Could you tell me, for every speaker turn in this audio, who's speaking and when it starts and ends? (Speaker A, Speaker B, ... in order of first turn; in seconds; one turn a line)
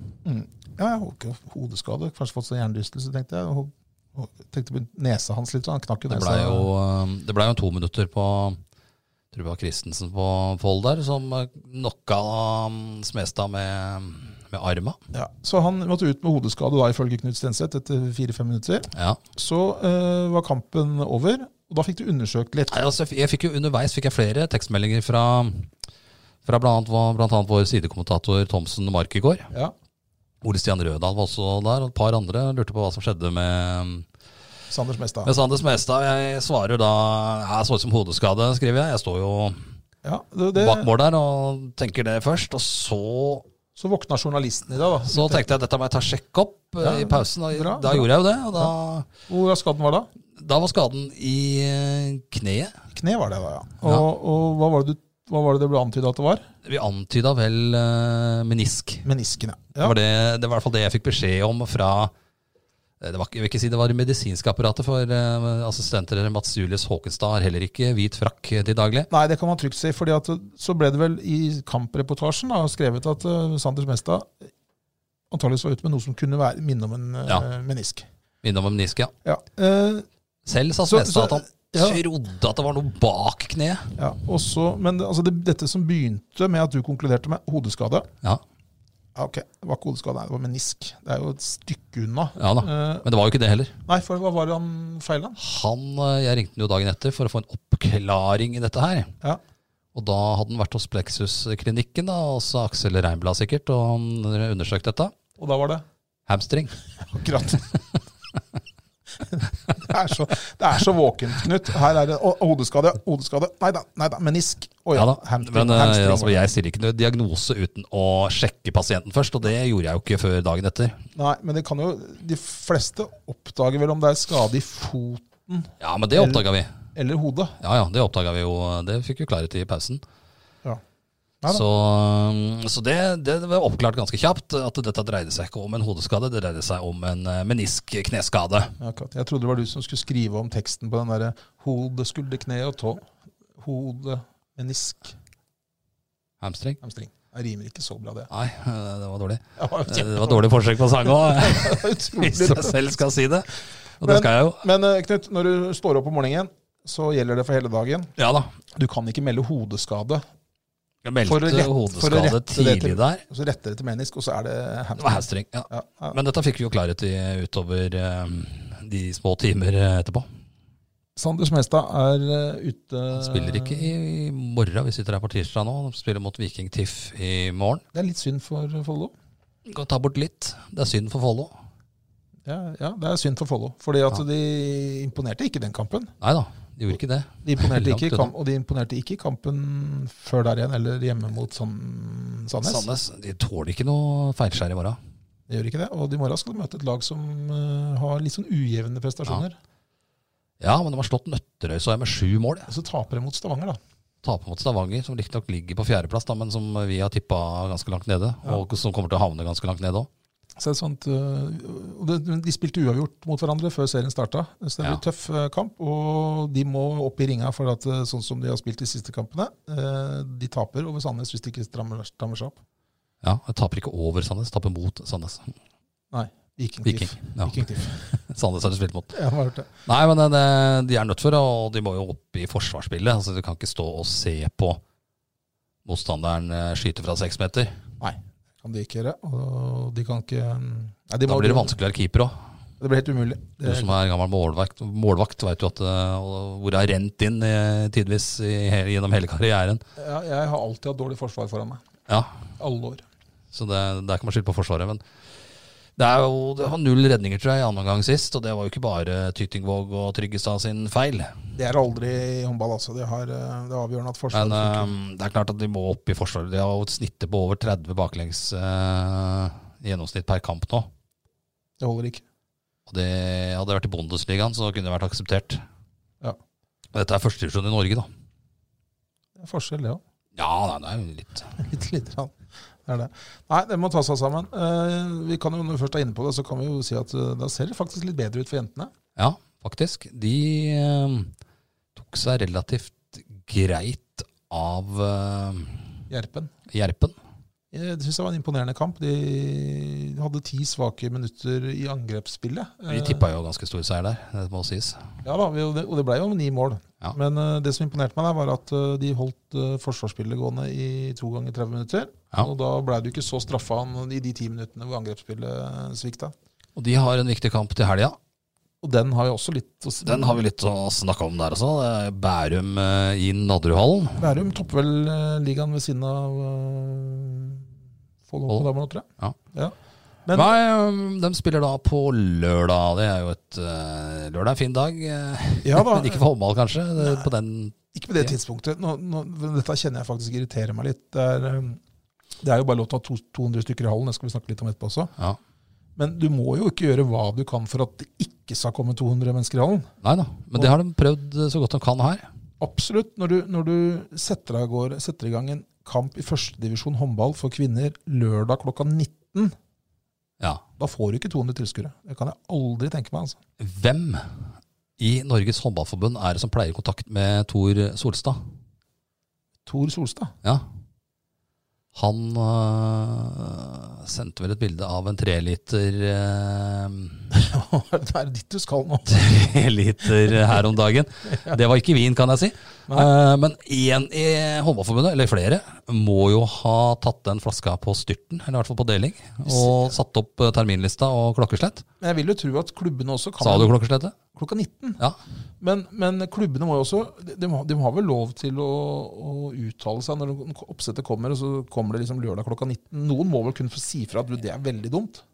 Speaker A: 0.2-6.7
Speaker B: 6.1-8.6
Speaker B: 9.3-15.0
Speaker A: 15.1-22.8
Speaker B: 18.9-19.2
Speaker B: 22.7-25.7
Speaker B: 26.4-29.5
Speaker B: 30.4-34.0
Speaker A: 34.7-35.3
Speaker B: 35.2-39.6
Speaker A: 40.0-40.9
Speaker B: 40.5-43.5
Speaker A: 43.8-45.4
Speaker B: 45.1-49.1
Speaker A: 46.8-48.7
Speaker A: 49.3-50.1
Speaker B: 50.4-52.7
Speaker A: 52.9-56.5
Speaker B: 56.6-59.0
Speaker A: 59.0-60.0
Speaker B: 59.8-62.1
Speaker B: 63.0-69.1
Speaker A: 69.1-74.5
Speaker A: 75.3-78.1
Speaker B: 78.4-79.1
Speaker A: 79.2-80.0
Speaker B: 80.5-83.9
Speaker A: 80.9-82.0
Speaker A: 84.0-88.1
Speaker A: 89.1-93.0
Speaker B: 92.4-93.8
Speaker A: 93.9-95.4
Speaker B: 95.4-99.1
Speaker B: 99.9-105.1
Speaker A: 105.4-105.8
Speaker B: 106.3-106.8
Speaker A: 107.1-107.6
Speaker A: 109.3-116.5
Speaker B: 114.9-121.0
Speaker A: 121.1-126.4
Speaker B: 125.8-126.7
Speaker A: 126.9-127.6
Speaker B: 127.6-130.0
Speaker B: 131.5-138.8
Speaker A: 138.8-143.1
Speaker A: 143.6-145.1
Speaker B: 146.4-146.8
Speaker A: 146.8-148.3
Speaker B: 148.3-154.6
Speaker A: 149.6-150.4
Speaker A: 151.0-152.8
Speaker A: 154.0-158.1
Speaker B: 158.2-158.5
Speaker A: 158.7-160.2
Speaker B: 161.0-163.2
Speaker A: 161.2-166.2
Speaker B: 165.0-170.3
Speaker A: 171.2-173.9
Speaker B: 173.1-177.8
Speaker A: 177.9-179.1
Speaker B: 179.7-181.5
Speaker A: 182.4-186.1
Speaker B: 186.2-188.3
Speaker A: 187.4-192.9
Speaker B: 192.6-195.0
Speaker A: 195.5-199.6
Speaker B: 200.6-202.7
Speaker A: 202.7-203.8
Speaker B: 204.2-210.1
Speaker A: 210.6-222.6
Speaker B: 223.2-225.5
Speaker A: 226.1-228.1
Speaker B: 226.8-227.6
Speaker B: 228.3-229.2
Speaker A: 229.1-229.7
Speaker B: 229.9-234.8
Speaker B: 235.9-237.8
Speaker A: 238.0-241.8
Speaker B: 241.2-242.4
Speaker A: 242.8-243.9
Speaker B: 243.6-249.8
Speaker A: 250.0-251.8
Speaker A: 252.6-253.0
Speaker B: 253.5-255.0
Speaker B: 256.0-261.4
Speaker A: 261.6-264.9
Speaker B: 264.3-270.9
Speaker A: 271.8-272.2
Speaker B: 272.9-275.6
Speaker B: 276.9-278.1
Speaker A: 279.4-280.0
Speaker B: 280.4-281.6
Speaker A: 281.6-288.9
Speaker B: 289.2-291.3
Speaker B: 291.9-295.8
Speaker A: 296.1-296.5
Speaker B: 296.7-297.1
Speaker A: 297.7-303.2
Speaker B: 302.9-305.1
Speaker A: 305.2-316.3
Speaker B: 316.8-318.2
Speaker A: 318.8-320.4
Speaker B: 320.0-324.2
Speaker A: 324.2-327.7
Speaker A: 328.3-329.8
Speaker A: 330.2-330.5
Speaker B: 330.3-338.4
Speaker A: 335.6-336.2
Speaker A: 337.0-337.3
Speaker A: 337.9-341.8
Speaker A: 342.4-345.1
Speaker A: 346.0-349.9
Speaker B: 350.0-352.2
Speaker A: 352.6-359.5
Speaker A: 360.8-363.4
Speaker B: 363.6-364.4
Speaker B: 365.0-368.4
Speaker A: 369.6-370.3
Speaker B: 371.9-377.3
Speaker A: 377.3-379.2
Speaker B: 379.1-391.8
Speaker A: 389.4-389.9
Speaker A: 392.0-393.7
Speaker B: 393.4-394.1
Speaker A: 394.3-395.0
Speaker A: 395.6-405.2